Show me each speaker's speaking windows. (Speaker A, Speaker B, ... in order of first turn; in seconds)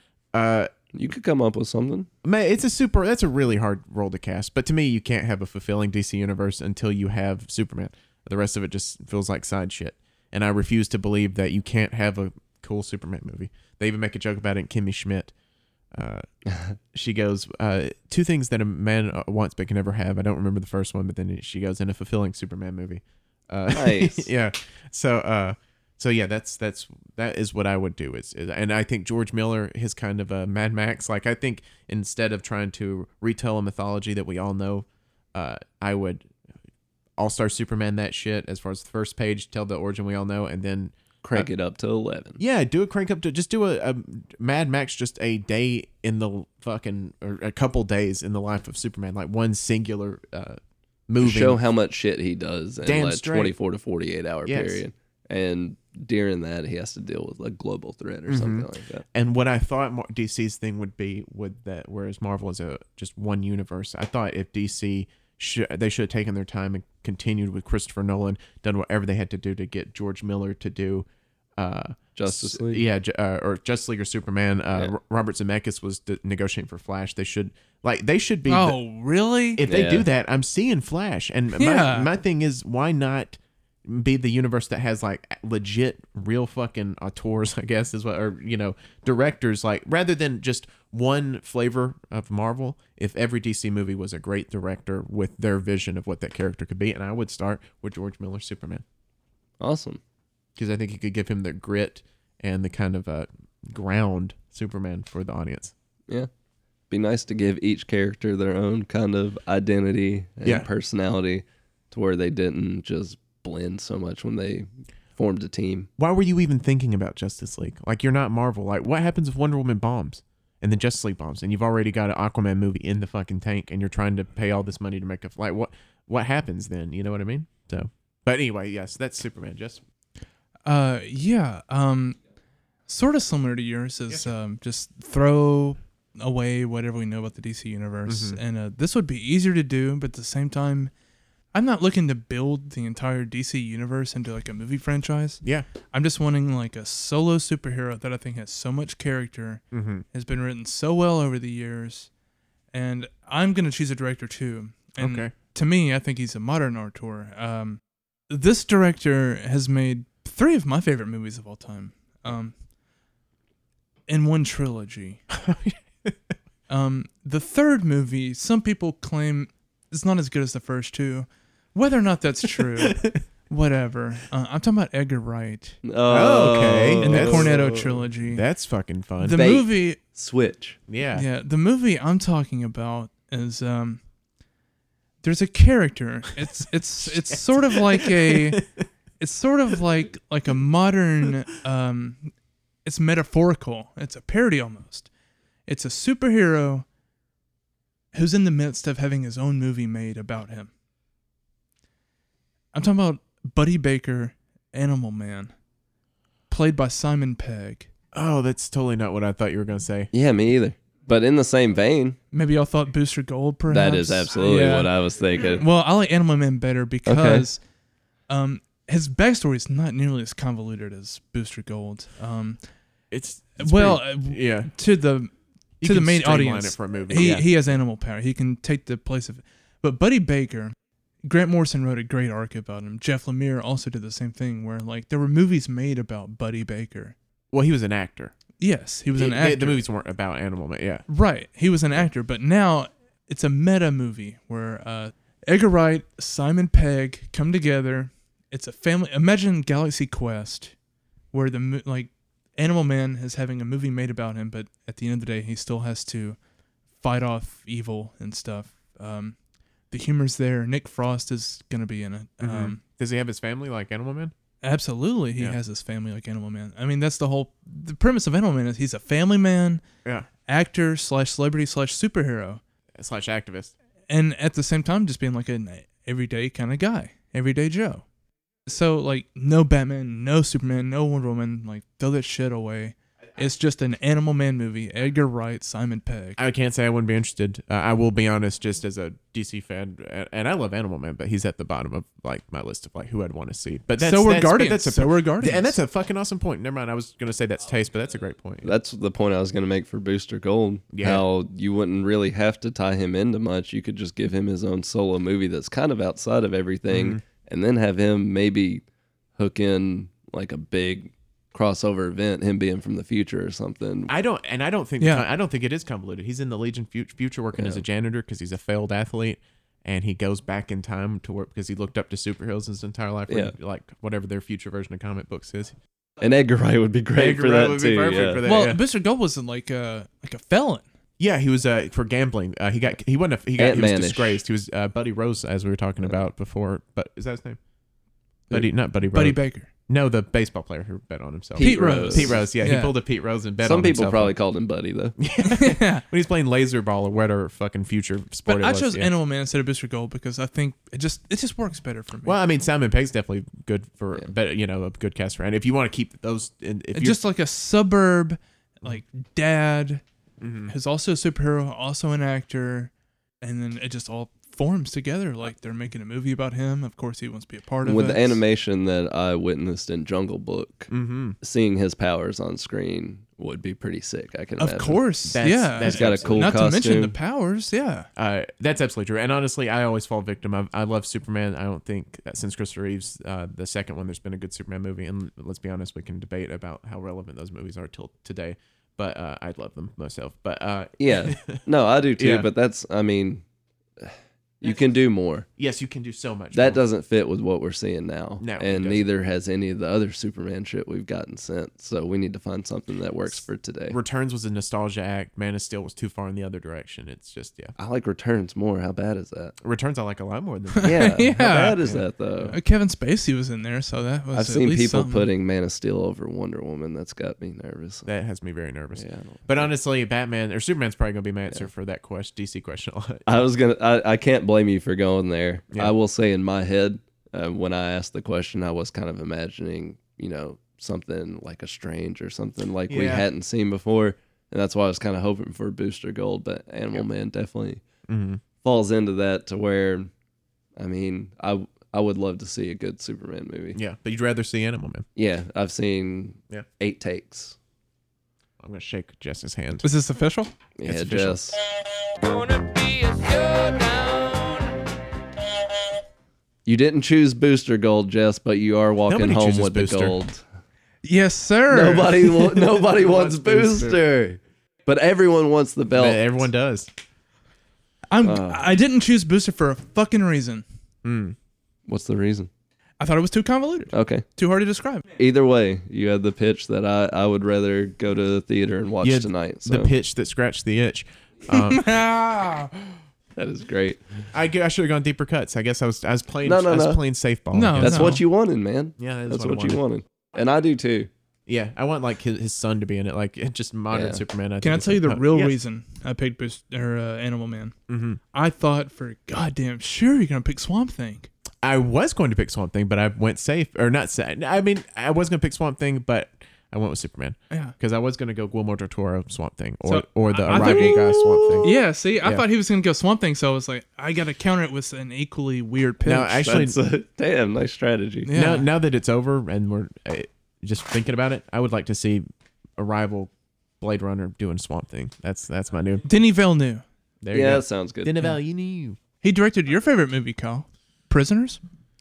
Speaker A: 0.3-0.7, 2.2-15.3, 15.9-16.2, 16.9-36.3, 37.2-41.5, 42.4-51.6, 52.8-53.5, 54.4-54.8, 58.3-78.8, 79.5-98.8, 100.6-105.7, 116.0-129.8, 138.1-138.4, 149.7-150.0, 155.0-155.3, 165.3-166.2, 172.8-173.1, 176.1-177.6, 178.2-179.5, 180.9-181.2, 187.0-188.7, 208.1-210.1, 223.1-224.7, 225.8-227.7, 237.5-238.3, 239.1-241.0, 262.4-264.3, 273.0-273.7, 286.4-298.7, 300.9-301.2, 306.9-307.2, 314.1-325.8, 327.1-328.8, 331.2-337.6, 338.5-344.4, 345.2-349.1, 352.2-357.2, 360.4-360.7, 370.9-371.4, 375.3-376.6, 378.2-391.6, 392.2-392.5, 395.6-396.8, 398.4-399.0, 403.9-407.7, 409.6-412.6, 418.1-423.2, 432.9-433.2, 438.1-438.4, 443.7-445.1, 448.6-449.9, 450.8-451.4, 459.1-460.2, 462.8-464.0, 465.9-466.9, 471.0-471.4, 479.0-481.9, 484.3-488.2, 489.0-489.8, 491.5-495.6, 497.9-498.2, 501.6-512.4, 516.0-516.8, 518.3-522.2, 522.8-523.3, 523.8-526.0, 527.2-529.0
Speaker B: 0.9-2.1, 23.7-24.3, 41.2-42.4, 51.2-59.0, 72.1-72.8, 79.7-80.1, 99.6-100.0, 106.9-115.9, 175.8-178.0, 179.3-180.8, 210.1-212.2, 213.7-215.7, 217.1-217.4, 298.6-308.8, 309.4-314.1, 317.5-317.8, 323.3-323.5, 326.2-328.4, 333.6-334.4, 341.6-342.4, 343.6-345.1, 367.8-370.9, 371.4-375.0, 375.8-377.1, 391.0-393.4, 394.0-395.4, 396.5-404.0, 407.8-409.6, 410.8-412.6, 414.3-418.1, 418.9-419.7, 423.2-437.8, 438.6-440.1, 440.8-443.8, 445.1-447.6, 450.8-451.6, 456.6-460.4, 461.7-466.4, 468.2-468.7, 471.9-472.5, 473.9-474.2, 475.2-479.9, 483.4-484.3, 486.4-487.0, 487.8-491.1, 493.9-494.2, 510.5-511.0, 516.4-518.3, 527.3-528.2
Speaker C: 78.5-79.6, 81.5-82.1, 130.7-132.2, 132.9-140.9, 141.5-149.6, 150.1-152.1, 152.7-162.5, 164.1-165.2, 166.7-175.8, 177.0-178.4, 179.2-180.0, 181.1-184.0, 185.2-188.6, 189.2-192.3, 192.8-195.1, 195.7-196.8, 198.1-200.7, 202.7-205.5, 206.5-207.9, 212.3-217.6, 218.3-222.6, 223.6-230.7, 231.2-237.2, 238.6-239.8, 241.1-250.7, 251.3-256.4, 257.0-259.3, 259.9-262.8, 264.6-269.8, 270.5-272.6, 274.1-278.0, 278.7-286.4, 294.0-295.8, 315.0-315.2, 328.4-330.8, 339.1-339.7, 341.6-342.9, 345.4-346.0, 348.4-352.4, 356.9-360.0, 360.7-362.9, 363.4-368.4, 374.6-378.1, 410.8-411.9, 412.5-415.3, 449.8-450.5, 461.0-462.6, 468.1-470.6, 473.0-475.0, 481.5-482.9, 487.5-488.2, 494.6-497.7, 498.3-501.3, 509.8-516.7, 518.3-518.7, 526.0-526.8, 529.2-531.6